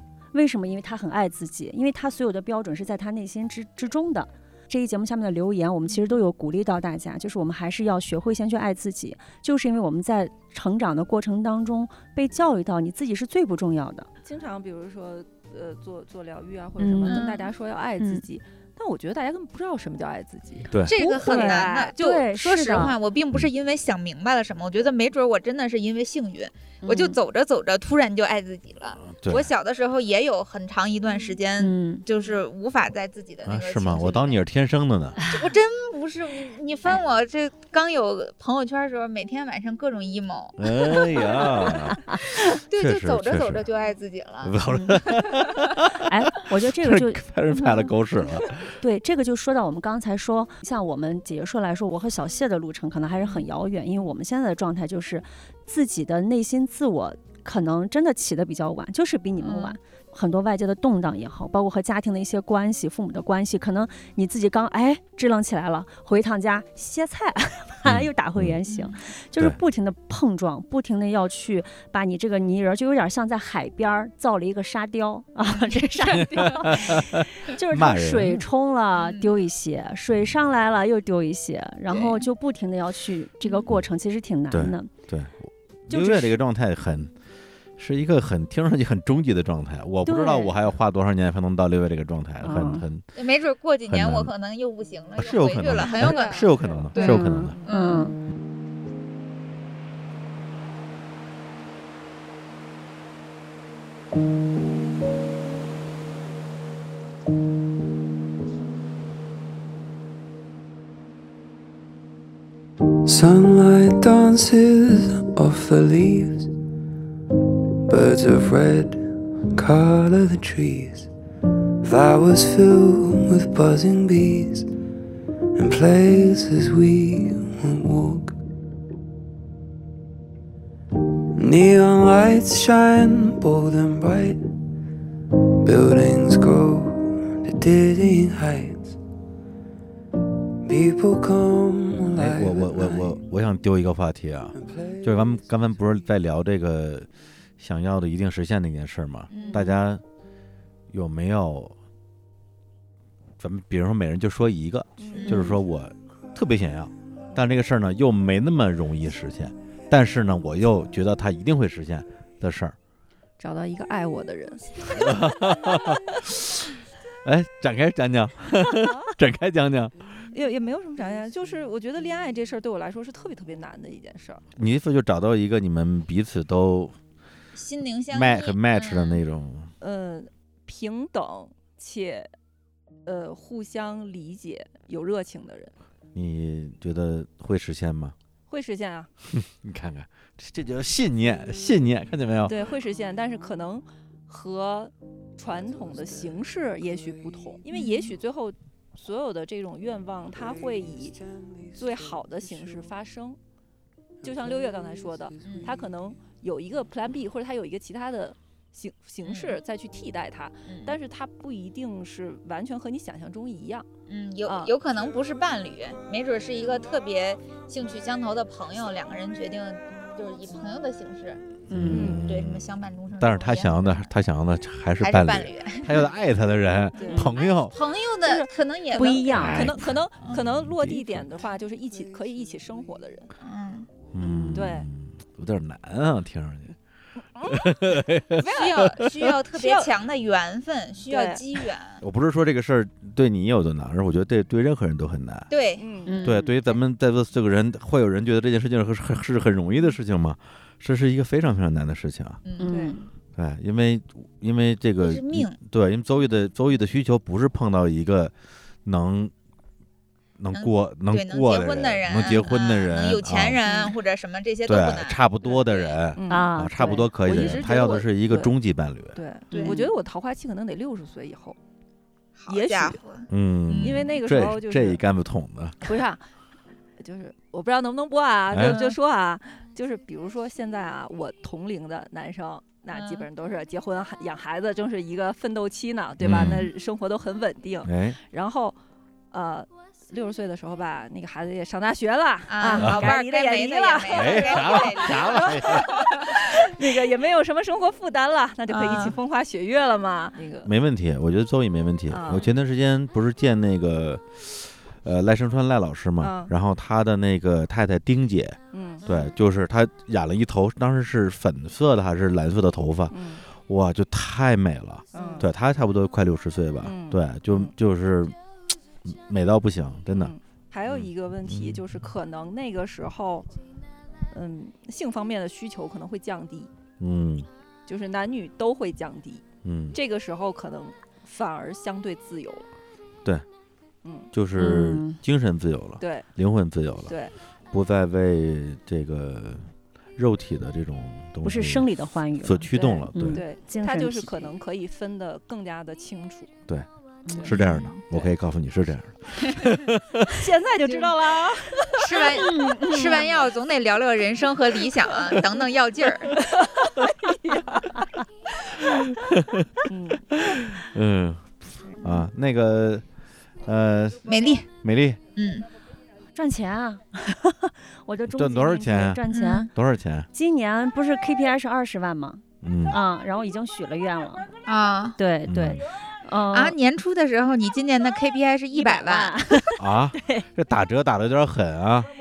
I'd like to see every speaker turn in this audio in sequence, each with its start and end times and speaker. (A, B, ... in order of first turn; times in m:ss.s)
0:00.3-0:14.1 A
0:14.2-0:21.9 B
0:16.8-0:17.2 A
0:17.1-0:17.5 C
0:20.8-0:34.4 C
0:20.9-0:23.0 A
0:26.8-0:27.2 A
0:29.0-0:29.5 D
0:31.6-0:32.0 A
0:33.4-0:35.2 D
0:35.3-0:41.8 C
0:40.6-0:43.6 D
0:42.4-0:45.8 C
0:44.4-0:48.6 D
0:44.6-0:45.1 A
0:45.9-0:47.9 A
0:48.8-1:24.9 A
0:59.4-0:59.8 C
1:07.8-1:08.6 D
1:08.7-1:09.0 C
1:15.5-1:16.9 C
1:16.3-1:18.4 D
1:19.0-1:19.3 C
1:21.9-1:22.2 C
1:24.5-1:27.1 D
1:25.9-1:26.4 A
1:27.8-1:33.1 D
1:30.0-1:30.6 A
1:32.4-1:32.8 A
1:33.1-1:38.1 C
1:33.9-1:34.3 D
1:35.2-1:37.6 D
1:36.0-1:36.9 B
1:37.0-1:38.2 A
1:53.0-1:56.5 E
1:57.8-2:01.1 E
2:01.8-2:04.7 E
2:05.5-2:08.4 E
2:11.3-2:14.4 E
2:15.6-2:19.0 E
2:20.6-2:23.2 E
2:22.1-2:30.0 D
2:24.5-2:25.5 E
2:29.3-2:29.8 C
2:29.4-2:29.7 B
2:30.9-2:31.8 D
2:33.4-2:42.8 D
2:35.0-2:35.3 B
2:35.1-2:35.4 C
2:35.3-2:35.6 A
2:43.4-2:45.2 B
2:44.9-2:46.6 D
2:47.2-2:49.9 D
2:48.7-2:49.1 B
2:50.3-2:54.4 B
2:54.6-2:57.0 D
2:57.5-2:59.2 C
2:58.1-2:59.7 D
2:59.8-3:02.3 B
3:03.0-3:05.7 B
3:06.1-3:08.1 D
3:08.5-3:09.1 B
3:09.3-3:12.6 D
3:12.5-3:21.2 B
3:15.4-3:17.7 E
3:17.7-3:18.2 C
3:20.3-3:23.0 E
3:21.7-3:23.4 B
3:24.2-3:26.0 E
3:24.2-3:33.8 B
3:25.4-3:25.7 C
3:29.2-3:29.6 C
3:30.7-3:31.0 C
3:34.1-3:41.4 C
3:34.4-3:34.7 B
3:41.7-3:42.2 A
3:41.7-3:47.8 D
3:41.9-3:42.2 B
3:42.2-3:44.0 C
3:45.0-3:46.0 C
3:47.0-3:47.4 B
3:47.4-3:49.7 C
3:48.2-3:48.5 B
3:48.9-3:49.7 A
3:49.3-3:51.2 D
3:49.5-3:53.3 B
3:53.4-3:53.9 C
3:54.1-3:56.8 D
3:54.2-3:54.7 A
3:54.5-3:54.9 B
3:57.4-3:59.9 B
3:57.4-3:59.3 D
3:58.4-4:02.0 C
4:01.1-4:01.4 B
4:02.0-4:05.5 D
4:05.5-4:05.8 C
4:05.8-4:06.2 B
4:06.0-4:06.5 A
4:06.2-4:12.4 D
4:12.4-4:12.7 C
4:12.6-4:13.1 A
4:12.6-4:13.0 B
4:13.4-4:18.3 D
4:15.0-4:15.5 C
4:18.8-4:19.3 D
4:20.4-4:23.6 D
4:20.5-4:26.0 C
4:23.6-4:23.9 B
4:24.6-4:29.2 D
4:26.1-4:26.5 B
4:26.3-4:27.1 A
4:27.2-4:28.5 B
4:29.1-4:31.6 B
4:29.5-4:29.9 A
4:29.5-4:29.9 C
4:32.4-4:34.1 C
4:32.5-4:33.0 B
4:33.3-4:35.9 D
4:33.8-4:35.0 B
4:35.8-4:36.2 B
4:37.0-4:48.8 B
4:38.5-4:38.8 D
4:38.6-4:38.9 C
4:42.9-4:43.3 C
4:46.2-4:46.7 D
4:47.8-4:48.2 D
4:49.3-5:00.7 B
4:52.5-4:56.6 C
4:52.7-4:53.1 D
4:54.1-4:55.9 D
4:58.7-4:59.2 C
5:00.6-5:18.4 D
5:02.1-5:02.5 B
5:06.2-5:06.5 B
5:08.7-5:09.0 B
5:13.1-5:13.4 B
5:15.1-5:15.5 B
5:16.8-5:17.7 B
5:19.0-5:20.3 D
5:20.1-5:23.5 B
5:20.8-5:21.8 D
5:24.3-5:26.7 B
5:27.0-5:27.5 D
5:27.9-5:32.7 B
5:29.6-5:30.0 D
5:34.0-5:34.3 B
5:34.3-5:37.2 D
5:34.6-5:35.2 A
5:36.0-5:36.3 B
5:37.1-5:37.3 B
5:37.7-5:43.4 D
5:41.4-5:44.5 A
5:42.7-5:46.5 B
5:47.2-5:47.5 A
5:47.4-5:50.3 D
5:47.5-5:48.0 C
5:50.3-5:53.3 A
5:50.8-5:51.9 B
5:52.0-5:56.4 C
5:52.9-5:53.5 B
5:55.1-5:55.6 B
5:56.3-5:58.1 B
5:58.9-5:59.7 D
5:59.9-6:00.4 B
6:00.3-6:03.0 D
6:03.6-6:05.2 D
6:04.2-6:04.7 C
6:05.4-6:05.6 C
6:06.3-6:09.7 A
6:08.3-6:10.3 D
6:09.3-6:09.7 C
6:10.3-6:14.5 A
6:12.6-6:13.0 D
6:14.7-6:15.2 C
6:15.2-6:16.8 A
6:15.4-6:15.8 D
6:16.5-6:19.6 C
6:18.7-6:20.5 A
6:19.8-6:22.1 D